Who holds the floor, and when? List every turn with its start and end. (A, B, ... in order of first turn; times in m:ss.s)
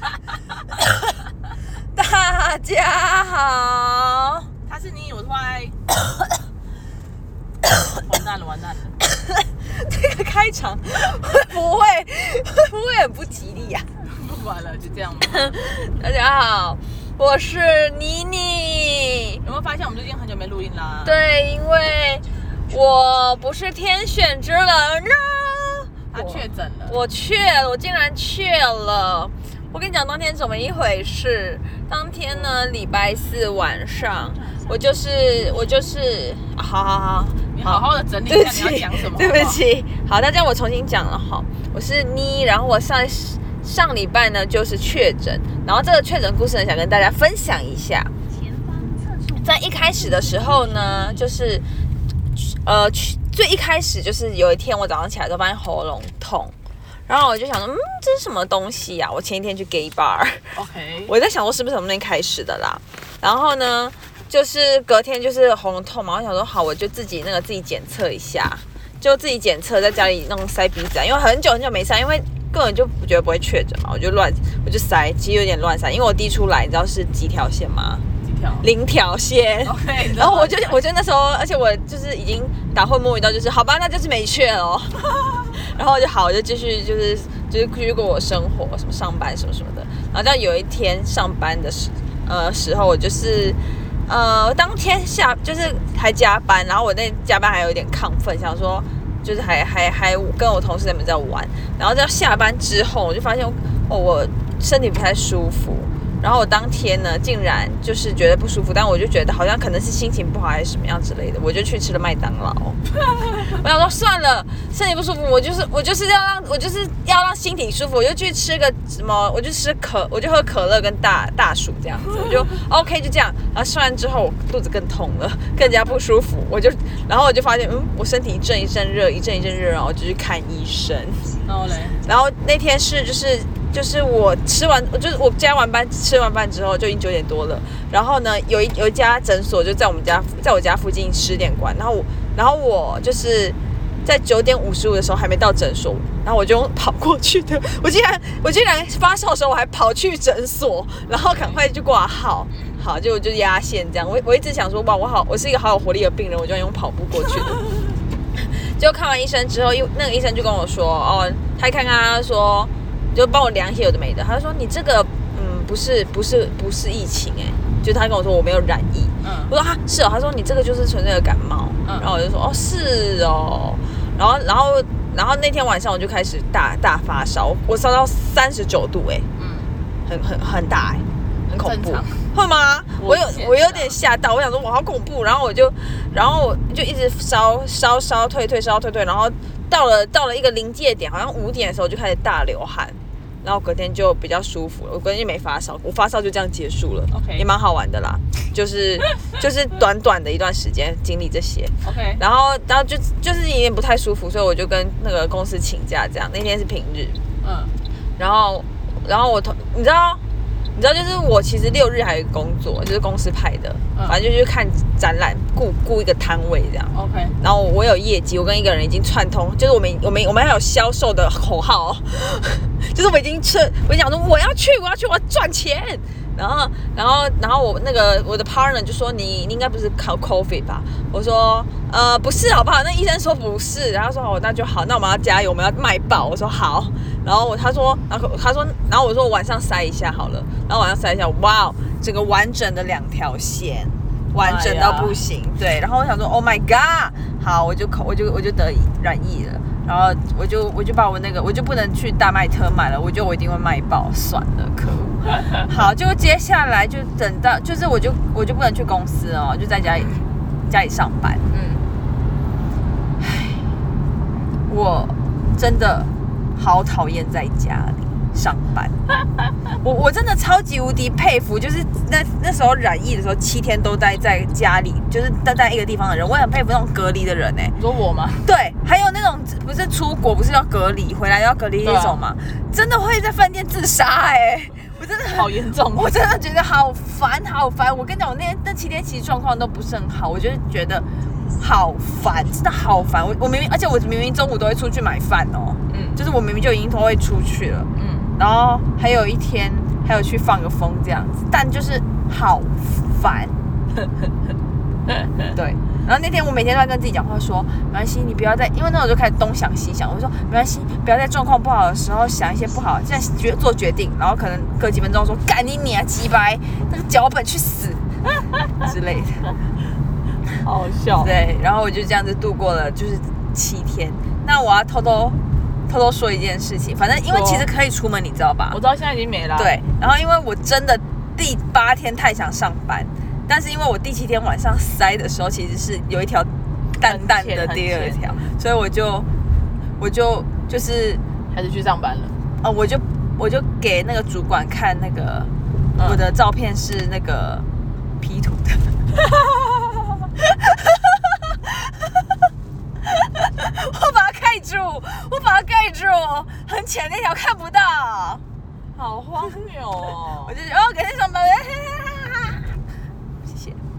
0:01.9-0:04.5 A
0:04.7-0:05.7 B
0:08.0-0:08.9 B
0:09.3-0:13.9 A
0:14.0-0:15.6 B
0:15.2-0:19.4 A
0:19.4-0:21.1 B
0:21.0-0:48.1 A
0:26.1-0:27.0 B
0:37.5-0:39.6 B
0:49.3-0:51.6 A
0:52.3-0:56.5 A
0:57.1-1:00.5 A
1:00.5-1:01.1 B
1:01.1-1:18.0 A
1:18.2-1:18.7 B
1:18.6-1:25.0 A
1:19.6-1:20.8 B
1:25.5-2:11.4 A
2:05.6-2:05.9 B
2:11.4-2:12.0 B
2:12.0-2:37.6 A
2:31.1-2:31.6 B
2:38.4-2:59.3 A
2:49.2-2:49.5 B
2:51.8-2:52.1 B
2:59.4-2:59.7 B
3:00.0-3:27.2 A
3:01.6-3:02.3 B
3:03.0-3:04.0 B
3:17.1-3:17.4 B
3:21.8-3:22.2 B
3:27.4-3:27.7 B
3:28.2-3:30.2 A
3:30.7-4:21.4 A
3:36.9-3:37.4 B
4:04.4-4:05.2 B
4:21.5-4:21.8 B
4:23.2-4:23.6 A
4:24.7-4:29.0 A
4:29.8-4:37.8 A
4:37.8-4:38.5 B
4:38.4-4:51.0 A
4:41.8-4:42.2 B
4:45.2-4:46.1 B
4:51.6-5:03.6 A
4:55.9-4:56.2 B
4:57.9-4:58.3 B
5:05.5-5:18.1 A
5:18.8-5:19.5 A
5:20.6-5:21.3 B
5:21.2-5:28.8 A
5:27.3-5:27.7 B
5:28.7-5:29.7 B
5:29.6-5:39.3 A
5:37.0-5:38.4 B
5:40.0-5:41.2 A
5:41.5-5:42.3 B
5:42.6-5:47.6 A
5:46.0-5:46.2 B
5:48.2-5:49.0 A
5:50.4-5:52.0 A
5:53.0-5:58.4 A
5:59.0-6:00.5 B
6:00.4-6:02.8 A
6:03.4-6:03.8 A